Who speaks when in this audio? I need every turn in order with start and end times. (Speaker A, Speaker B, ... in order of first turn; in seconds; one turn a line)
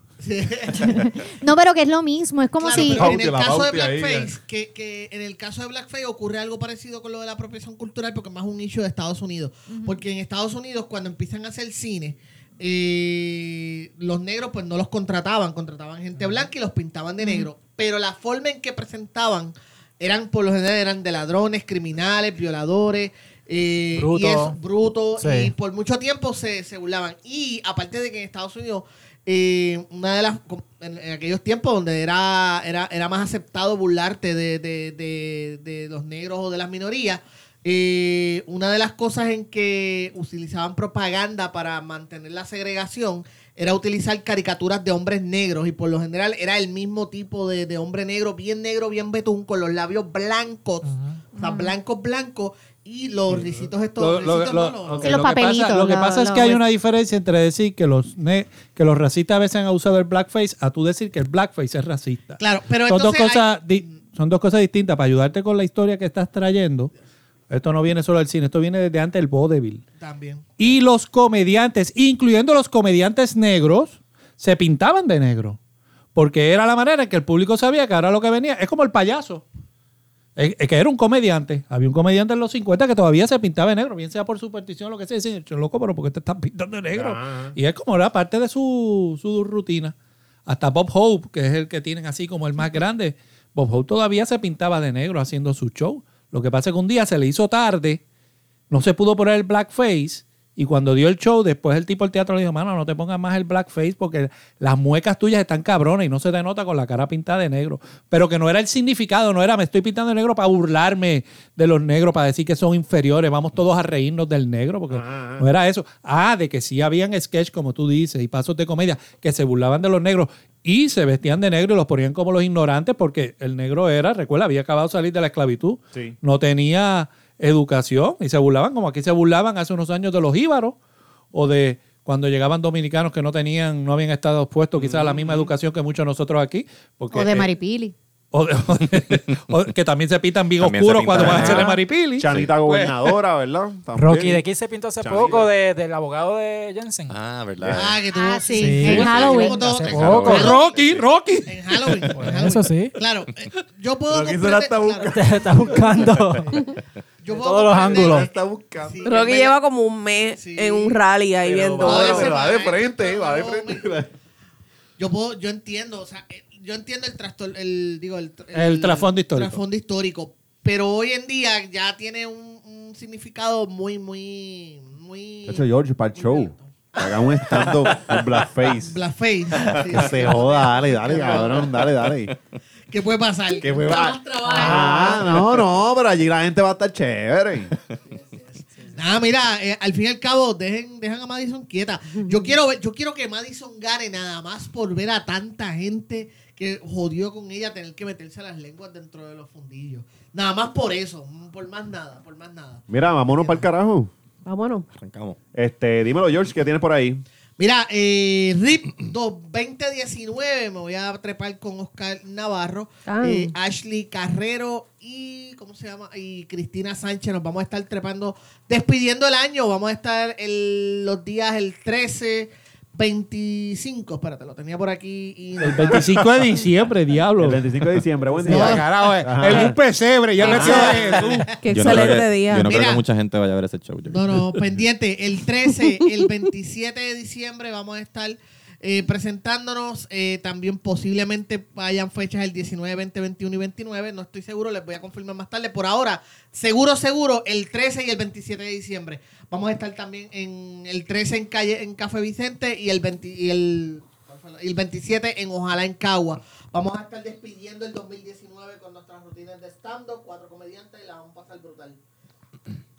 Speaker A: 0.2-1.1
Speaker B: 0.8-3.2
Speaker A: 2.6-55.1
Speaker C: 2.7-4.3
Speaker B: 17.2-17.5
Speaker D: 23.9-24.5
Speaker D: 25.2-25.5
Speaker B: 51.4-51.7
Speaker E: 54.0-66.9
Speaker B: 55.0-56.6
Speaker A: 62.4-63.9
Speaker E: 67.5-69.8
Speaker A: 70.0-70.5
Speaker E: 70.6-75.6
Speaker E: 76.1-79.4
Speaker E: 80.4-89.9
Speaker C: 86.9-87.6
Speaker E: 90.5-98.0
Speaker E: 98.7-130.8
Speaker C: 114.9-115.5
Speaker E: 131.3-137.5
Speaker C: 134.8-135.5
Speaker B: 137.1-137.9
Speaker E: 138.3-142.3
Speaker F: 140.6-143.1
Speaker C: 141.2-141.6
Speaker B: 141.4-141.8
Speaker C: 142.2-144.4
Speaker D: 143.9-147.2
Speaker C: 145.0-145.5
Speaker F: 147.1-147.9
Speaker A: 147.7-155.8
Speaker B: 148.1-149.7
Speaker D: 148.5-150.5
Speaker F: 148.9-150.4
Speaker E: 150.2-152.0
Speaker D: 152.1-152.9
Speaker C: 154.1-155.8
Speaker D: 155.1-156.6
Speaker A: 157.2-159.6
Speaker D: 157.3-158.3
Speaker C: 157.8-159.0
Speaker G: 159.0-162.3
Speaker A: 160.3-161.0
Speaker C: 161.4-164.1
Speaker A: 161.8-163.9
Speaker A: 165.0-177.8
Speaker E: 168.5-169.6
Speaker C: 175.5-178.9
Speaker A: 178.7-181.8
Speaker C: 179.7-182.3
Speaker A: 182.9-185.6
Speaker C: 183.6-187.7
Speaker A: 188.2-203.6
Speaker C: 202.9-204.1
Speaker G: 204.4-204.8
Speaker F: 205.0-205.4
Speaker C: 205.5-207.2
Speaker A: 207.6-226.2
Speaker G: 213.1-213.5
Speaker E: 225.6-227.6
Speaker C: 227.4-229.8
Speaker A: 228.4-228.9
Speaker E: 228.4-231.4
Speaker A: 230.4-232.1
Speaker C: 230.4-231.0
Speaker G: 231.6-232.7
Speaker F: 231.7-234.5
Speaker A: 232.6-233.0
Speaker A: 234.1-262.0